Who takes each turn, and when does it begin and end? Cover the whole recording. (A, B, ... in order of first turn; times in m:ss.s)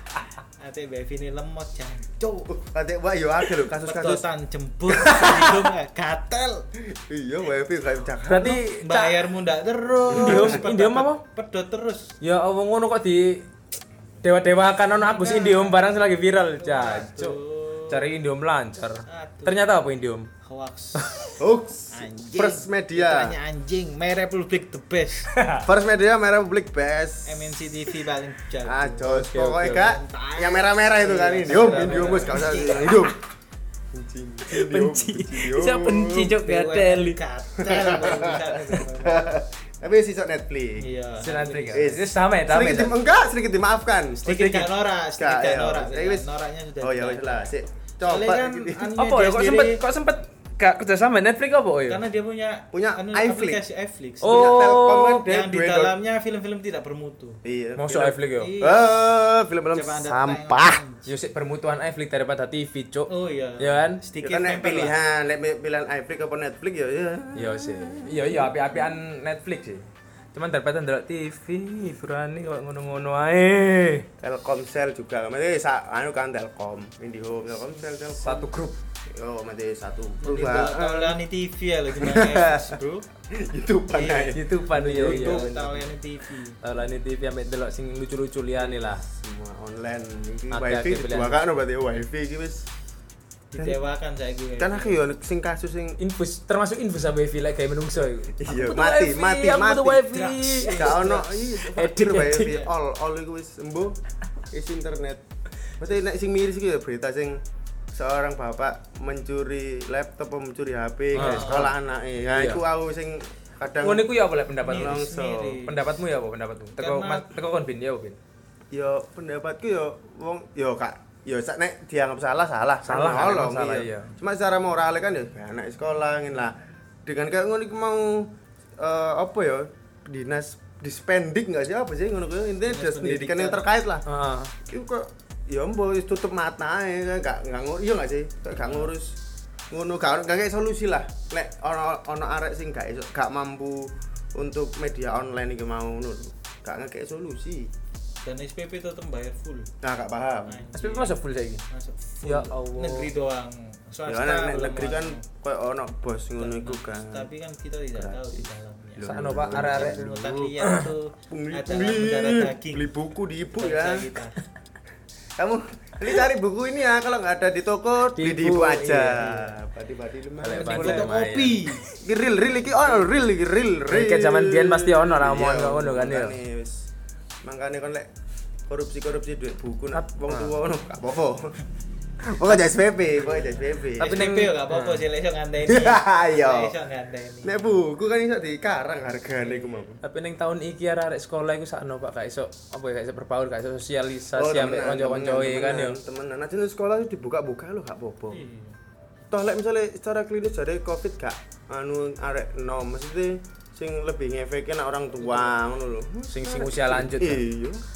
0:00.6-0:02.2 A
0:02.2-0:04.3 B
0:03.8-0:06.6 A
0:05.0-0:05.6 C
0:06.7-0:08.6 B
0:08.3-0:09.3 C
0:08.8-0:12.1 A
0:10.1-0:10.6 B
0:10.1-0:11.2 C
0:12.2-0:13.4 C
0:14.2-0:17.4 C
0:14.9-0:15.9 A
0:16.6-0:18.1 A
0:17.9-0:20.3 C
0:19.1-0:19.6 A
0:20.4-0:21.0 A
0:21.0-0:21.4 C
0:21.4-0:23.3 B
0:21.9-0:25.3 A
0:25.4-0:25.7 C
0:25.6-0:27.5 B
0:27.3-0:29.2 A
0:28.7-0:33.2 B
0:29.0-0:30.0 C
0:29.7-0:33.0 A
0:31.5-0:33.1 C
0:33.9-0:36.3 B
0:34.5-0:37.2 C
0:36.4-0:39.2 A
0:37.6-0:40.9 B
0:40.8-0:41.9 A
0:41.2-0:43.0 C
0:41.7-0:44.2 B
0:44.2-0:49.8 A
0:44.3-0:44.7 C
0:45.2-0:46.3 B
0:46.8-0:48.8 B
0:49.0-0:52.0 C
0:51.9-0:54.7 A
0:52.7-0:53.6 B
0:54.2-0:55.2 C
0:54.2-0:55.9 B
0:55.2-0:57.4 A
0:57.4-1:00.8 B
0:57.8-0:58.5 C
0:58.4-0:58.8 A
0:59.7-1:01.1 A
1:01.1-1:04.0 C
1:03.1-1:05.0 A
1:04.2-1:08.9 B
1:07.4-1:14.1 C
1:14.2-1:18.5 B
1:18.2-1:18.8 C
1:19.1-1:21.2 B
1:20.2-1:23.0 A
1:22.0-1:22.8 B
1:23.3-1:25.5 B
1:23.9-1:26.6 A
1:24.3-1:25.9 C
1:26.6-1:29.0 C
1:28.6-1:32.7 B
1:30.5-1:31.4 C
1:33.5-1:35.0 A
1:34.6-1:36.0 B
1:36.0-1:42.7 C
1:38.4-1:44.0 B
1:40.1-1:41.3 A
1:44.5-1:45.2 B
1:45.8-1:54.1 B
1:51.2-1:51.7 A
1:51.2-1:51.7 C
1:52.3-1:52.6 C
1:53.8-1:55.1 C
1:54.6-1:55.8 A
1:54.7-1:55.6 B
1:55.6-1:58.2 C
1:56.8-1:57.3 A
1:58.7-2:14.1 B
2:02.8-2:04.1 C
2:12.7-2:13.6 A
2:14.1-2:14.5 C
2:14.6-2:19.2 B
2:18.6-2:18.9 A
2:19.7-2:27.7 B
2:28.2-2:29.7 A
2:29.8-2:30.7 B
2:30.5-2:31.2 A
2:30.8-2:31.6 C
2:31.7-2:35.3 A
2:32.2-2:33.1 C
2:34.1-2:37.3 B
2:36.4-2:42.9 A
2:38.0-2:38.4 B
2:39.0-2:40.6 B
2:39.0-2:40.0 C
2:41.3-2:44.1 B
2:43.5-2:44.4 A
2:45.4-2:51.2 B
2:48.2-2:49.5 C
2:50.4-2:51.9 C
2:50.5-2:51.8 A
2:52.0-2:56.9 B
2:53.9-2:56.4 C
2:57.4-2:58.1 B
2:58.7-3:01.5 B
2:59.9-3:00.5 C
3:02.2-3:04.3 B
3:04.0-3:05.0 C
3:04.0-3:07.8 A
3:05.6-3:06.7 B
3:07.4-3:10.0 B
3:09.3-3:09.9 A
3:10.0-3:16.0 C
3:14.4-3:18.5 B
3:18.3-3:18.8 A
3:19.3-3:27.8 B
3:26.3-3:27.4 C